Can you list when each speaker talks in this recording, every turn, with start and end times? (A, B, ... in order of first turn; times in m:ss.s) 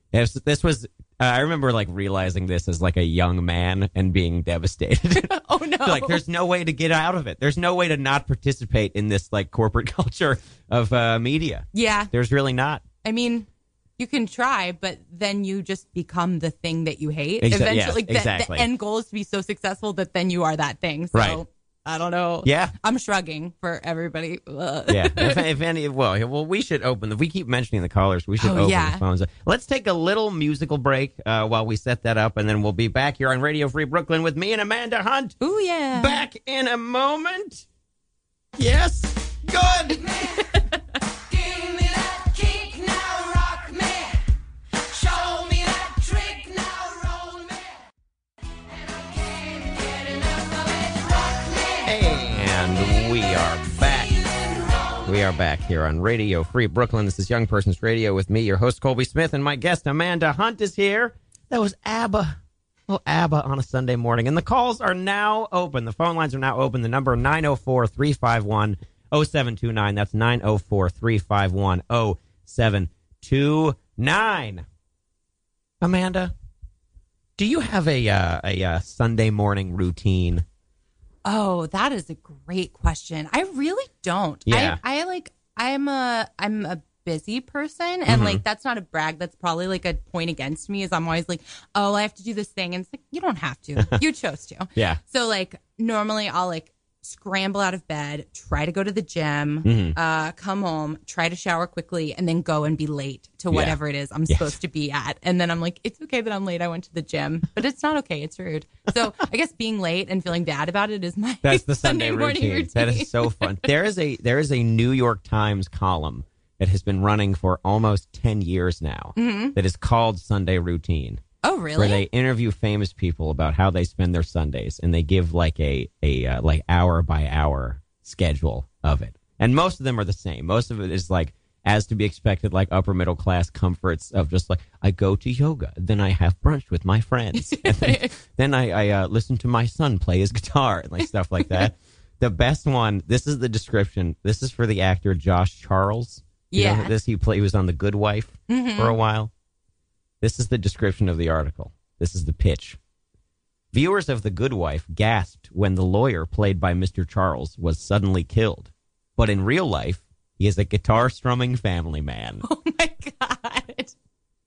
0:00.1-0:12.8 A
0:05.1-0:06.2 B
0:11.7-0:12.1 B
0:13.0-0:25.4 B
0:17.4-0:18.7 A
0:21.1-0:21.4 A
0:22.4-0:22.7 A
0:24.9-0:35.4 A
0:28.4-0:29.0 B
0:35.4-0:36.2 B
0:35.9-0:37.6 A
0:38.6-0:40.1 A
0:40.3-0:40.8 B
0:51.8-1:14.6 A
1:15.8-1:16.3 A
1:17.4-1:20.4 A
1:21.2-1:53.7 B
1:24.4-1:24.8 A
1:28.1-1:28.4 A
1:33.8-1:34.0 A
1:39.6-1:40.0 A
1:43.5-1:43.8 A
1:44.3-1:44.6 A
1:51.4-2:01.2 A
1:59.2-1:59.6 B
2:01.4-2:02.0 B
2:01.8-2:29.3 A
2:17.4-2:18.2 B
2:26.5-2:26.9 B
2:28.5-2:29.0 B
2:30.2-2:32.8 A
2:33.7-2:42.4 A
2:42.4-2:43.9 B